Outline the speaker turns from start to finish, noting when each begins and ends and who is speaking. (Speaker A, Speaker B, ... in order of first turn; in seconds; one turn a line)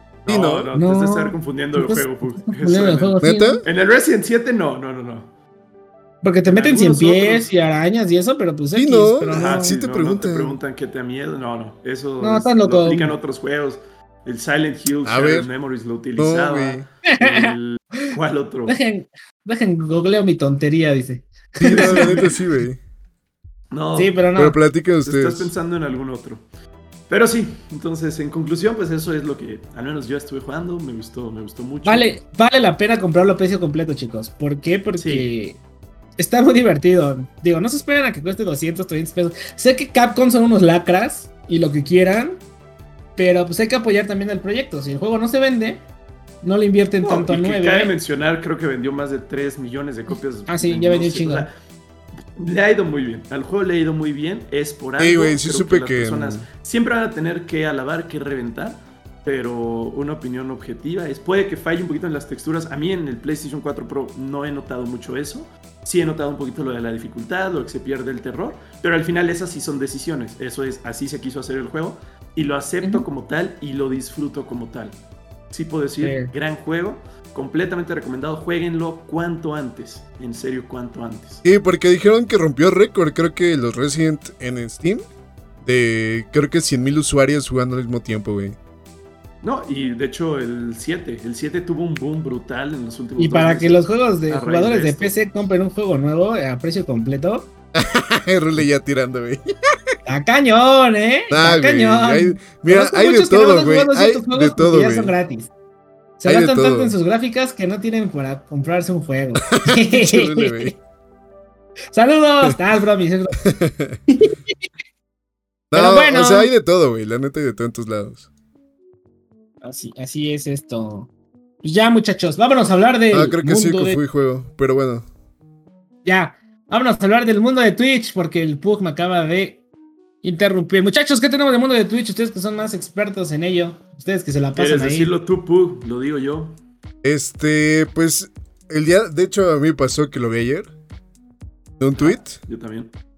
Speaker A: 0.2-0.7
Speaker B: 0.2-5.3
Speaker C: 0.7-3.6
Speaker A: 3.2-3.6
Speaker C: 6.2-9.7
Speaker B: 6.5-7.5
Speaker A: 8.7-10.6
Speaker B: 9.3-18.8
Speaker C: 12.2-13.1
Speaker A: 15.0-15.5
Speaker A: 16.2-16.8
Speaker C: 17.1-18.1
Speaker C: 18.7-22.3
Speaker A: 21.6-22.8
Speaker B: 21.7-22.3
Speaker B: 23.7-24.3
Speaker C: 23.9-24.6
Speaker A: 24.4-25.5
Speaker B: 25.0-26.4
Speaker B: 27.1-32.1
Speaker C: 31.8-35.6
Speaker B: 35.0-35.3
Speaker C: 36.2-42.4
Speaker C: 43.1-45.8
Speaker C: 46.4-47.9
Speaker B: 47.0-51.5
Speaker C: 50.5-51.5
Speaker B: 52.4-75.0
Speaker A: 55.0-56.4
Speaker B: 75.5-81.4
Speaker C: 76.0-76.3
Speaker A: 81.4-85.0
Speaker A: 85.6-88.6
Speaker B: 89.4-95.1
Speaker C: 93.2-97.5
Speaker A: 97.7-99.4
Speaker C: 100.0-105.5
Speaker A: 101.3-105.1
Speaker C: 106.2-110.8
Speaker A: 106.2-106.9
Speaker A: 109.4-110.8
Speaker C: 111.9-113.4
Speaker A: 113.4-114.0
Speaker C: 114.1-114.7
Speaker A: 115.7-118.3
Speaker C: 115.7-116.5
Speaker C: 119.6-121.1
Speaker C: 121.6-124.0
Speaker A: 123.1-125.0
Speaker C: 126.0-129.6
Speaker C: 130.2-135.1
Speaker B: 134.6-136.5
Speaker A: 137.0-140.7
Speaker A: 141.8-142.4
Speaker B: 142.0-142.9